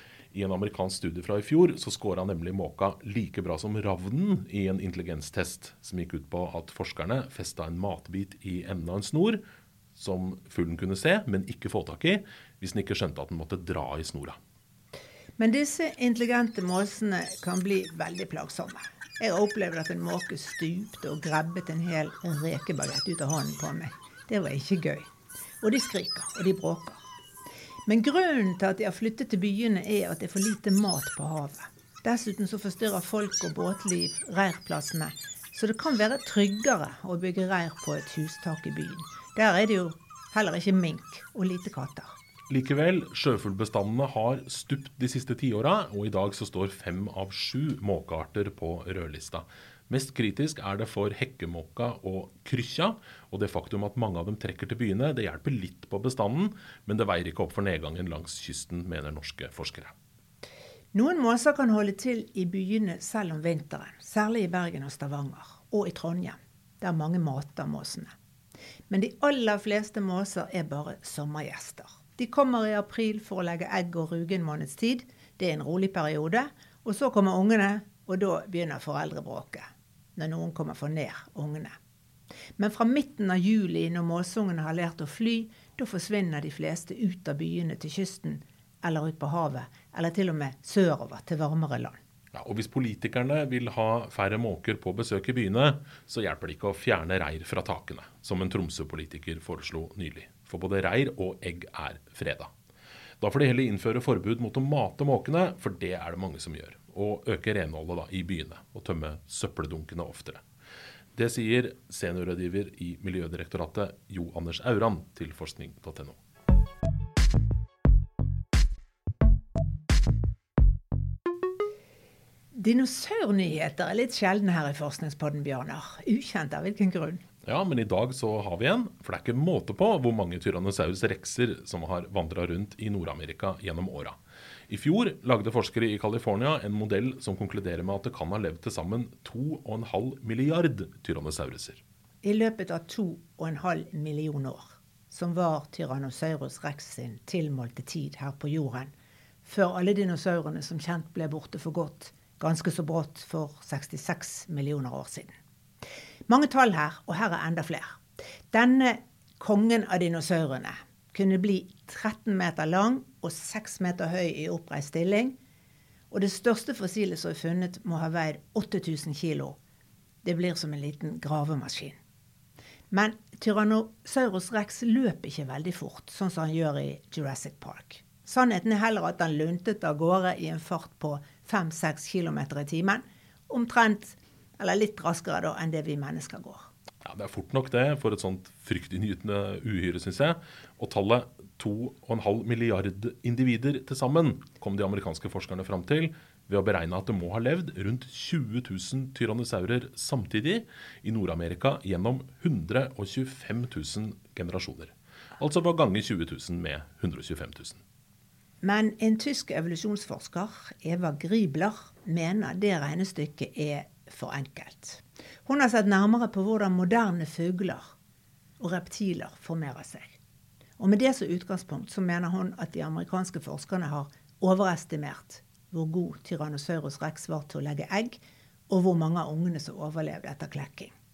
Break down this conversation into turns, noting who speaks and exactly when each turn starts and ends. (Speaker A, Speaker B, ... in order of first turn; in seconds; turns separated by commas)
Speaker A: 0.3-9.4, Speaker A: 10.0-14.4, Speaker B: 15.4-25.1, Speaker B: 25.6-27.0, Speaker B: 27.9-42.1, Speaker A: 42.5-59.9, Speaker B: 60.9-68.1, Speaker B: 68.9-81.8, Speaker B: 82.6-92.0, Speaker A: 92.3-102.5, Speaker A: 103.2-110.4, Speaker A: 111.2-116.2, Speaker B: 122.5-127.2, Speaker A: 127.5-134.2, Speaker A: 134.7-141.8, Speaker B: 142.2-148.9, Speaker B: 149.4-155.3, Speaker B: 156.3-158.0, Speaker B: 158.5-165.3, Speaker B: 166.1-169.6, Speaker B: 170.2-172.0, Speaker B: 172.9-186.7, Speaker A: 187.0-207.8, Speaker B: 208.6-217.9, Speaker B: 218.6-220.2, Speaker B: 220.8-230.9